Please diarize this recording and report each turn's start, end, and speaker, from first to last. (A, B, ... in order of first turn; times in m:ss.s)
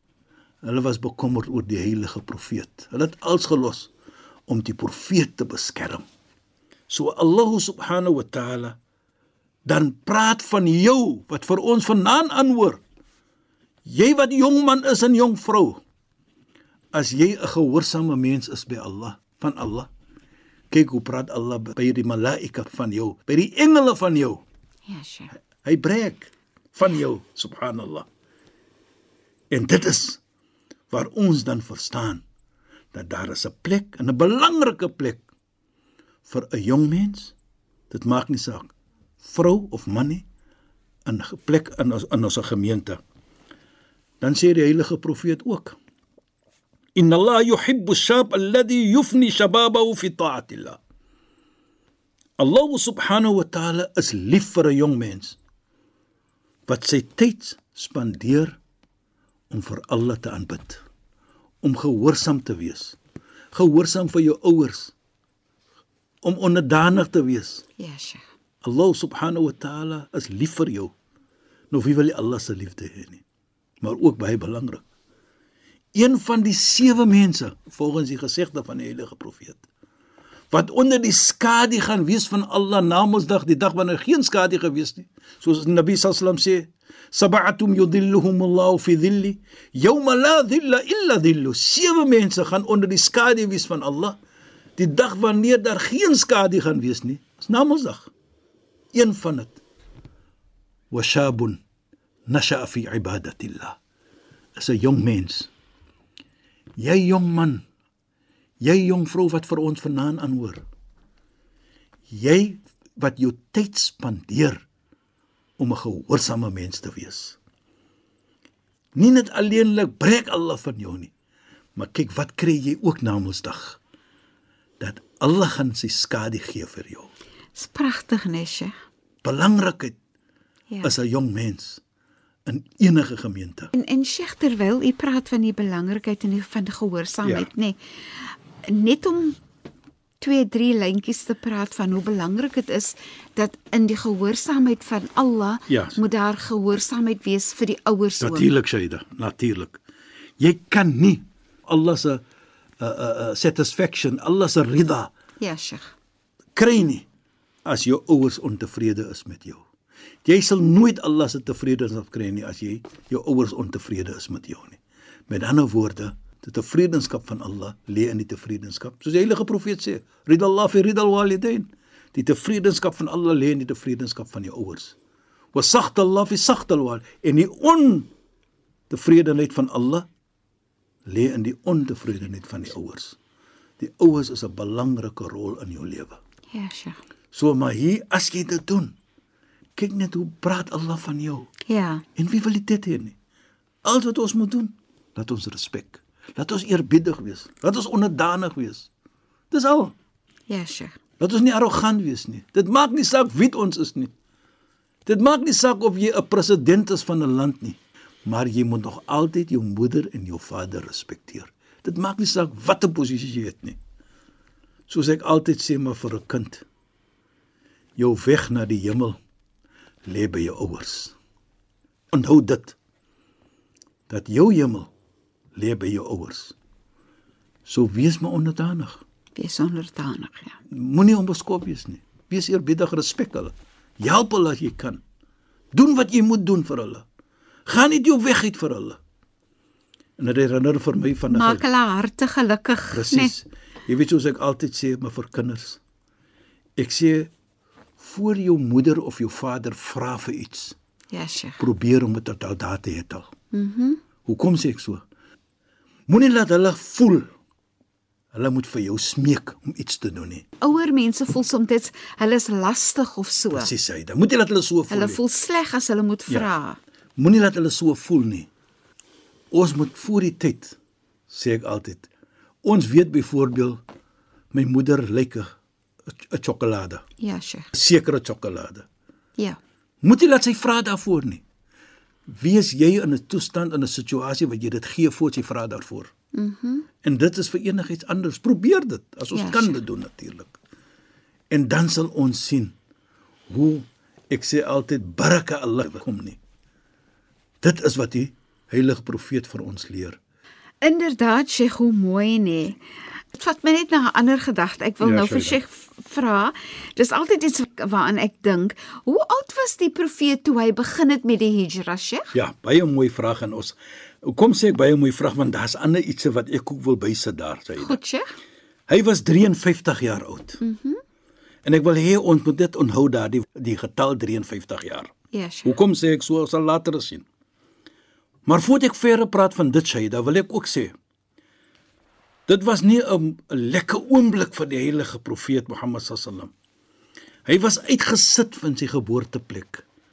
0:00.6-0:03.9 A
0:04.5-0:06.0 A
0:06.9-0:08.8 A
0:09.7-0:12.8 A
0:13.8-0:15.8 A
0:16.9-0:19.9 A
0:20.7-0:24.4 A
0:24.9-0:25.3 B
0:25.6-0:28.1 A
0:29.5-0:30.2 A
0:30.9-0:32.2 A
0:32.9-0:35.2 A
0:36.2-0:37.4 A
0:37.9-0:40.2 A
0:41.1-0:43.0 A
0:44.2-0:45.8 A
0:47.0-0:50.8 A
0:52.4-0:55.4 A
0:56.7-0:58.6 A
0:59.5-1:00.8 A
1:01.6-1:03.0 A
1:03.5-1:04.9 A
1:06.2-1:07.6 A
1:07.8-1:08.2 B
1:08.6-1:10.9 A
1:11.7-1:13.2 A
1:13.8-1:14.8 A
1:16.0-1:19.6 A
1:20.5-1:34.2 A
1:34.8-1:38.1 A
1:38.9-1:39.6 A
1:40.9-1:41.6 A
1:42.3-1:43.8 A
1:44.6-1:45.5 A
1:46.8-1:47.6 A
1:48.6-1:50.6 A
1:52.1-1:54.6 A
1:55.6-1:57.4 A
1:59.0-2:01.1 A
2:01.8-2:03.8 A
2:04.8-2:07.1 A
2:07.6-2:08.7 B
2:09.2-2:10.0 A
2:10.8-2:11.8 A
2:12.5-2:13.7 A
2:13.7-2:19.4 B
2:20.2-2:28.5 B
2:25.7-2:26.0 A
2:28.2-2:29.8 A
2:30.4-2:32.2 A
2:32.8-2:35.1 A
2:35.4-2:35.9 B
2:36.6-2:37.1 A
2:37.7-2:39.6 A
2:40.2-2:55.0 A
2:55.5-2:58.1 A
2:58.9-3:00.1 A
3:01.1-3:03.2 A
3:03.8-3:06.2 A
3:06.5-3:07.0 B
3:07.3-3:09.0 A
3:09.8-3:11.5 A
3:11.7-3:12.0 B
3:12.2-3:13.2 A
3:13.8-3:18.9 A
3:19.5-3:19.9 A
3:20.5-3:21.0 B
3:21.2-3:24.1 A
3:25.1-3:33.8 A
3:34.9-3:36.6 A
3:38.0-3:39.2 A
3:40.1-3:41.2 A
3:42.1-3:42.8 A
3:44.1-3:44.9 A
3:45.6-3:46.6 A
3:47.7-3:49.0 A
3:49.4-3:50.6 B
3:50.7-3:55.0 A
3:55.7-3:57.0 A
3:57.7-3:59.0 A
4:00.2-4:01.6 A
4:01.3-4:03.3 B
4:02.9-4:05.8 A
4:06.8-4:07.3 A
4:08.0-4:10.8 A
4:11.1-4:11.6 B
4:11.6-4:13.3 A
4:13.5-4:14.0 B
4:14.2-4:15.0 A
4:16.1-4:17.3 A
4:18.3-4:20.4 A
4:20.6-4:23.7 B
4:23.5-4:25.2 A
4:24.9-4:26.8 B
4:27.2-4:28.5 A
4:29.5-4:30.8 A
4:31.3-4:32.1 A
4:32.6-4:33.8 A
4:34.5-4:35.5 A
4:36.3-4:37.0 A
4:37.2-4:37.7 B
4:37.7-4:38.9 A
4:40.0-4:41.4 A
4:42.3-4:46.1 A
4:46.3-4:46.9 B
4:47.0-4:50.6 A
4:49.3-4:49.8 B
4:51.5-4:52.8 A
4:53.5-4:56.4 A
4:57.6-5:00.2 A
5:00.8-5:02.8 B
5:03.3-5:12.4 B
5:05.0-5:05.6 A
5:12.3-5:18.0 A
5:17.8-5:18.3 B
5:18.9-5:20.6 A
5:20.6-5:21.0 B
5:21.6-5:25.1 A
5:25.3-5:25.8 B
5:25.6-5:27.2 A
5:28.5-5:30.9 A
5:32.5-5:36.5 A
5:37.5-5:39.8 A